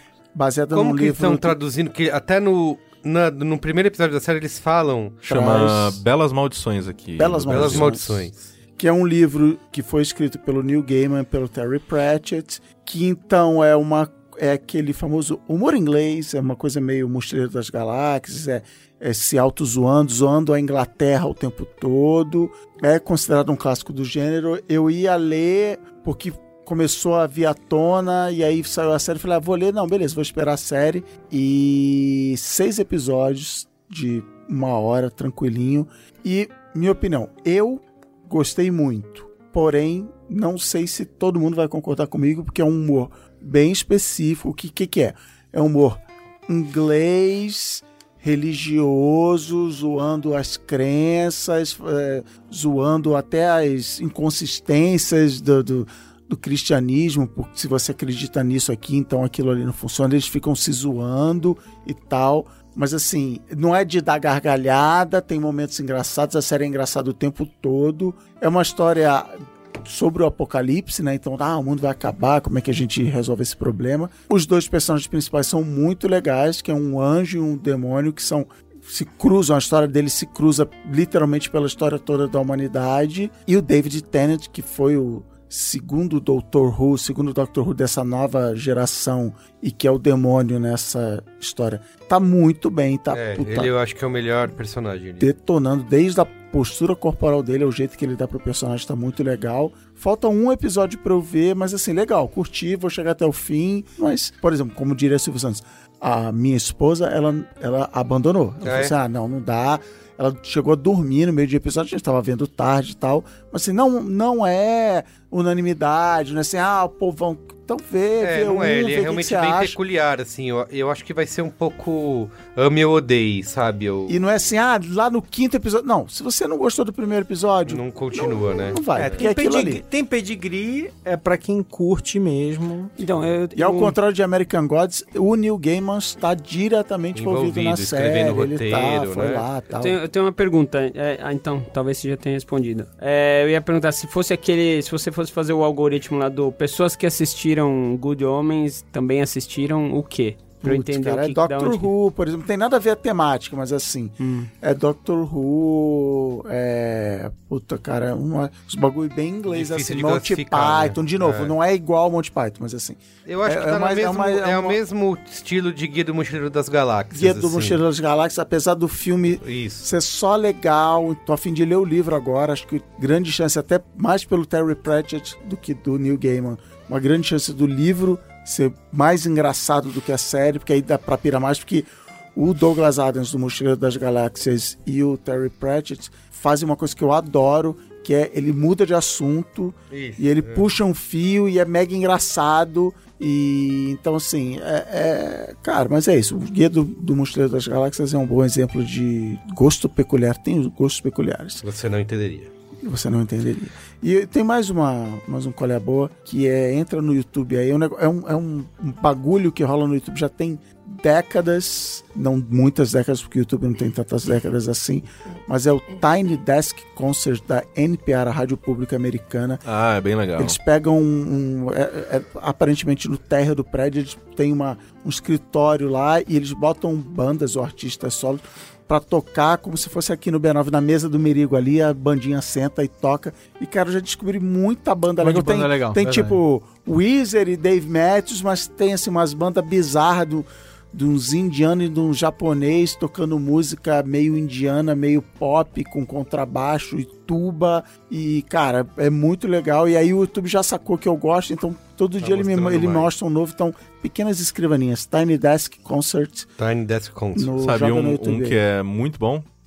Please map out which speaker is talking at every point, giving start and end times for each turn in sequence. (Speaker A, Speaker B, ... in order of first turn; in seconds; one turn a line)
Speaker A: 0.3-1.6
Speaker B: 0.7-5.2
Speaker C: 5.2-7.9
Speaker A: 5.2-6.0
Speaker A: 7.2-93.7
Speaker B: 7.5-8.5
Speaker B: 93.1-95.3
Speaker A: 95.2-119.8
Speaker B: 108.6-108.9
Speaker B: 118.2-124.2
Speaker A: 124.1-129.8
Speaker B: 127.7-129.2
Speaker D: 129.0-132.9
Speaker E: 133.0-133.9
Speaker A: 133.5-140.0
Speaker B: 137.1-139.4
Speaker E: 139.7-151.9
Speaker A: 150.6-164.8
Speaker E: 154.2-154.5
Speaker B: 159.5-161.5
Speaker B: 163.2-167.8
Speaker A: 167.1-201.6
Speaker B: 169.4-169.9
Speaker B: 189.9-190.7
Speaker B: 201.6-202.5
Speaker A: 202.8-219.6
Speaker C: 219.6-220.6
Speaker A: 220.4-256.5
Speaker D: 235.2-236.4
Speaker B: 252.2-253.1
Speaker B: 256.6-257.5
Speaker A: 257.3-258.6
Speaker C: 257.6-259.4